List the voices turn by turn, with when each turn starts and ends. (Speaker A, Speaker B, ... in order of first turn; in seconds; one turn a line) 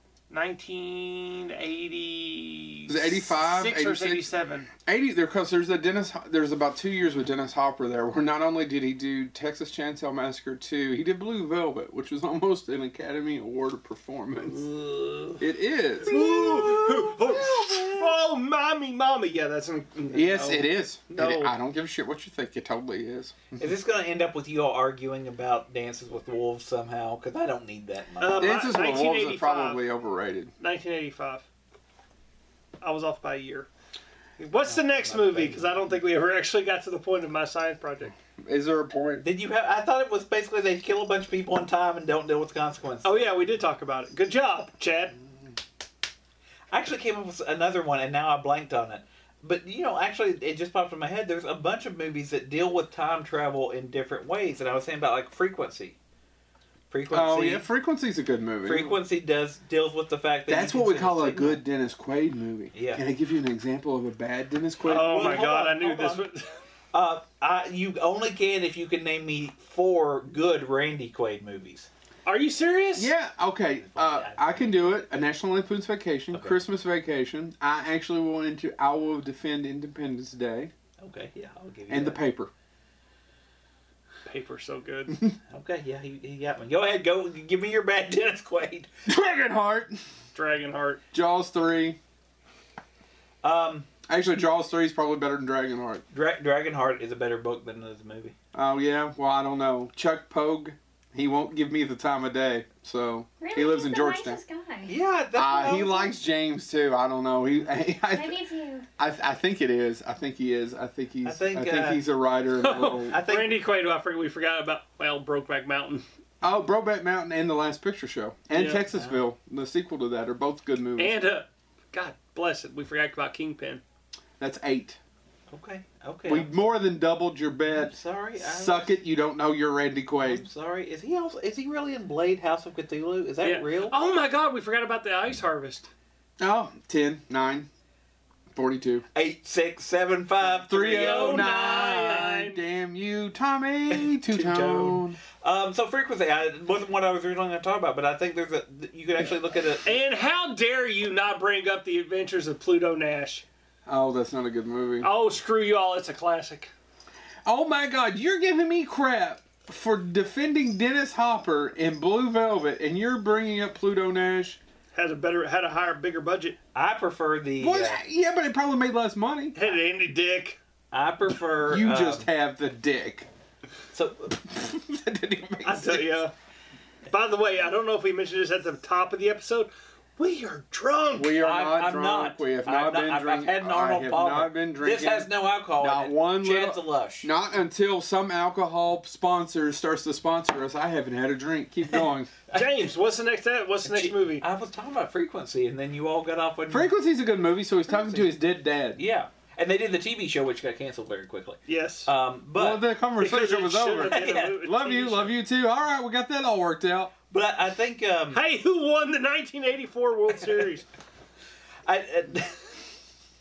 Speaker A: 0.3-4.7
Speaker B: 2.9-4.3
Speaker B: 4.8-14.6
Speaker A: 14.5-15.4
Speaker B: 15.4-16.7
Speaker A: 16.0-21.5
Speaker C: 16.1-17.1
Speaker B: 20.1-23.6
Speaker C: 23.6-28.6
Speaker A: 28.2-29.8
Speaker B: 28.4-30.5
Speaker A: 30.6-31.4
Speaker A: 32.8-33.7
Speaker A: 34.4-38.1
Speaker C: 34.6-35.8
Speaker B: 38.4-39.2
Speaker C: 39.2-43.3
Speaker A: 43.0-45.1
Speaker C: 46.7-56.0
Speaker C: 56.9-57.6
Speaker B: 57.1-58.9
Speaker C: 58.6-61.6
Speaker B: 60.5-65.2
Speaker C: 62.7-63.0
Speaker A: 64.8-66.5
Speaker C: 64.9-66.2
Speaker C: 66.9-71.9
Speaker A: 72.2-73.1
Speaker B: 72.9-80.7
Speaker C: 73.8-74.9
Speaker C: 76.3-76.6
Speaker C: 81.0-82.2
Speaker B: 81.9-82.5
Speaker A: 84.2-85.2
Speaker C: 85.5-88.9
Speaker B: 89.0-90.0
Speaker A: 90.3-91.0
Speaker B: 91.1-92.0
Speaker C: 93.4-93.9
Speaker B: 94.1-96.0
Speaker C: 96.1-98.3
Speaker B: 98.5-104.4
Speaker D: 103.4-105.0
Speaker C: 104.8-106.2
Speaker B: 105.3-108.4
Speaker D: 108.1-108.9
Speaker B: 109.0-113.2
Speaker C: 111.2-112.0
Speaker A: 112.5-116.0
Speaker C: 113.1-113.6
Speaker B: 116.4-121.2
Speaker A: 118.5-118.8
Speaker C: 118.9-119.2
Speaker A: 121.0-123.8
Speaker B: 124.4-125.0
Speaker C: 125.5-126.5
Speaker B: 126.3-130.4
Speaker C: 127.7-128.9
Speaker C: 130.2-134.0
Speaker A: 133.4-135.9
Speaker B: 136.4-137.7
Speaker B: 138.5-139.0
Speaker C: 139.1-142.0
Speaker B: 140.5-145.2
Speaker A: 140.7-142.6
Speaker C: 143.9-149.8
Speaker A: 149.8-153.4
Speaker B: 153.9-155.1
Speaker A: 155.0-156.7
Speaker B: 157.4-164.6
Speaker A: 164.9-166.6
Speaker C: 166.7-168.0
Speaker B: 167.6-169.6
Speaker A: 169.5-170.6
Speaker C: 170.9-172.3
Speaker B: 171.7-173.3
Speaker C: 173.9-174.3
Speaker B: 174.4-176.1
Speaker A: 175.6-176.3
Speaker A: 177.1-181.4
Speaker B: 181.2-192.3
Speaker C: 181.4-187.3
Speaker A: 192.5-194.4
Speaker C: 193.8-196.9
Speaker B: 196.7-199.0
Speaker C: 199.0-202.8
Speaker A: 201.7-202.1
Speaker B: 202.6-207.1
Speaker A: 203.2-205.3
Speaker C: 204.1-204.6
Speaker C: 207.3-208.4
Speaker A: 208.3-210.9
Speaker C: 211.8-212.8